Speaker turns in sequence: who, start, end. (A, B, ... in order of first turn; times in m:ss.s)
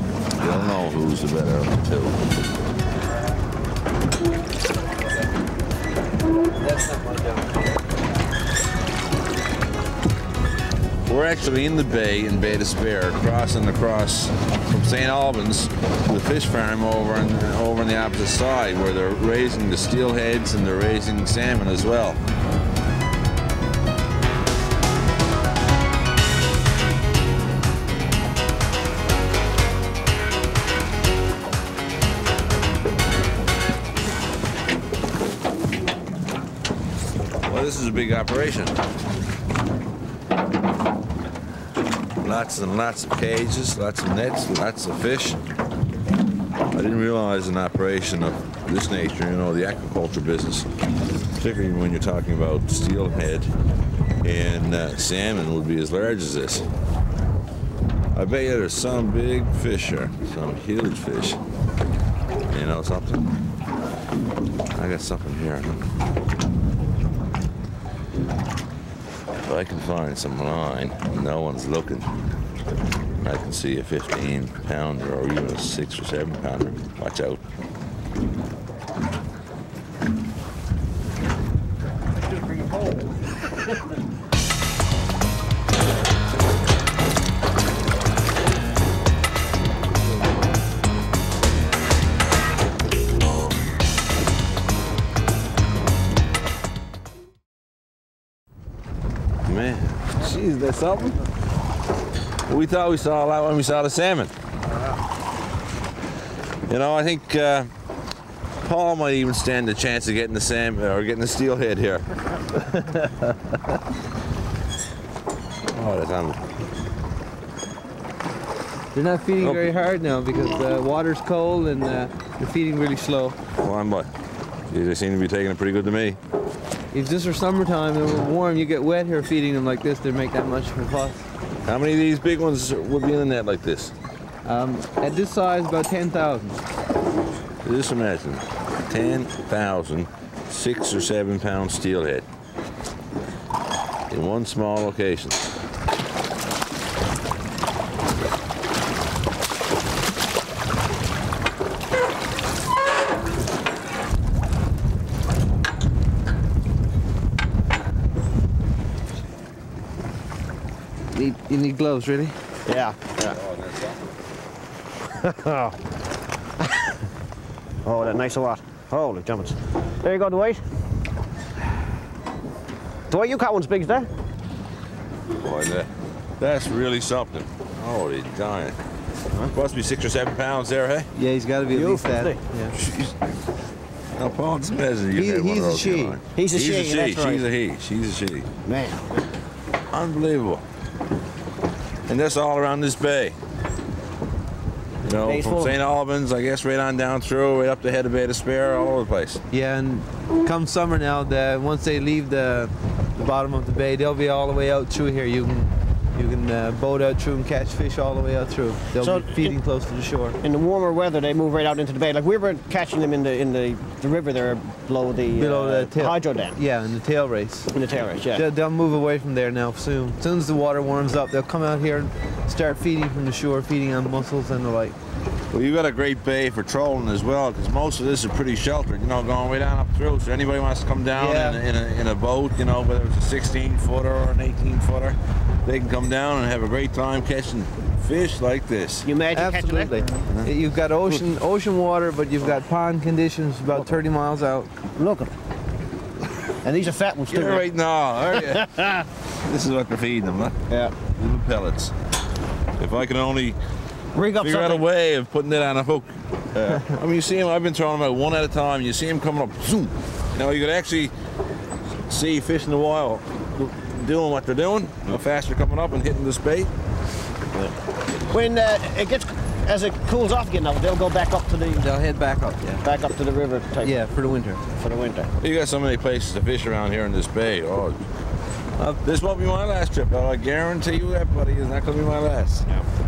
0:00.4-0:02.3 A
0:06.8-0:07.5 B
0:11.0-0:22.2 A
0:37.4-0:38.8 A
0:42.2-0:45.4 A
0:46.7-0:50.7 A
0:51.3-0:53.5 A
0:54.2-0:56.7 A
0:58.1-1:01.4 A
1:02.5-1:03.3 A
1:04.7-1:05.9 A
1:09.4-1:12.2 A
1:13.2-1:17.4 A
1:22.1-1:23.8 C
1:39.4-1:41.2 A
1:42.5-1:44.3 A
1:46.7-1:47.7 A
1:48.6-1:52.1 A
1:55.7-1:56.5 A
1:58.9-2:03.4 B
1:59.4-1:59.7 A
2:03.6-2:04.1 A
2:04.7-2:06.2 A
2:06.9-2:11.3 B
2:11.6-2:13.9 A
2:14.4-2:16.6 B
2:17.6-2:22.3 A
2:24.1-2:25.5 A
2:41.1-2:42.4 B
2:42.6-2:43.3 C
2:43.2-2:44.0 A
2:45.2-2:45.8 C
2:46.6-2:47.0 C
2:47.8-2:50.6 C
2:53.1-2:54.1 C
2:55.4-2:58.8 A
2:59.5-3:01.1 A
3:01.1-3:02.8 B
3:01.7-3:02.4 C
3:02.7-3:03.2 A
3:04.1-3:08.5 A
3:05.1-3:06.2 B
3:06.4-3:07.4 C
3:08.6-3:09.2 C
3:09.9-3:10.6 A
3:12.1-3:13.4 A
3:15.0-3:19.4 A
3:15.2-3:15.7 C
3:19.5-3:30.4 B
3:29.0-3:29.6 C
3:30.4-3:36.6 C
3:35.4-3:37.7 B
3:37.7-3:38.4 C
3:38.3-3:45.0 B
3:45.5-3:59.1 A
3:51.1-3:51.6 B
3:59.0-4:00.0 C
3:59.3-4:04.7 B
4:05.0-4:05.3 C
4:06.6-4:07.6 C
4:07.3-4:08.7 A
4:08.3-4:09.1 C
4:09.3-4:11.9 A
4:10.7-4:10.9 C
4:12.8-4:13.6 A
4:14.1-4:14.8 C
4:14.4-4:21.1 A
4:22.1-4:26.7 A
4:27.5-4:27.8 C
4:28.3-4:31.8 C
4:31.8-4:32.8 B
4:32.8-4:34.0 C
4:33.8-4:34.6 B
4:34.8-4:35.3 C
4:35.4-4:38.1 A
4:39.0-4:42.7 A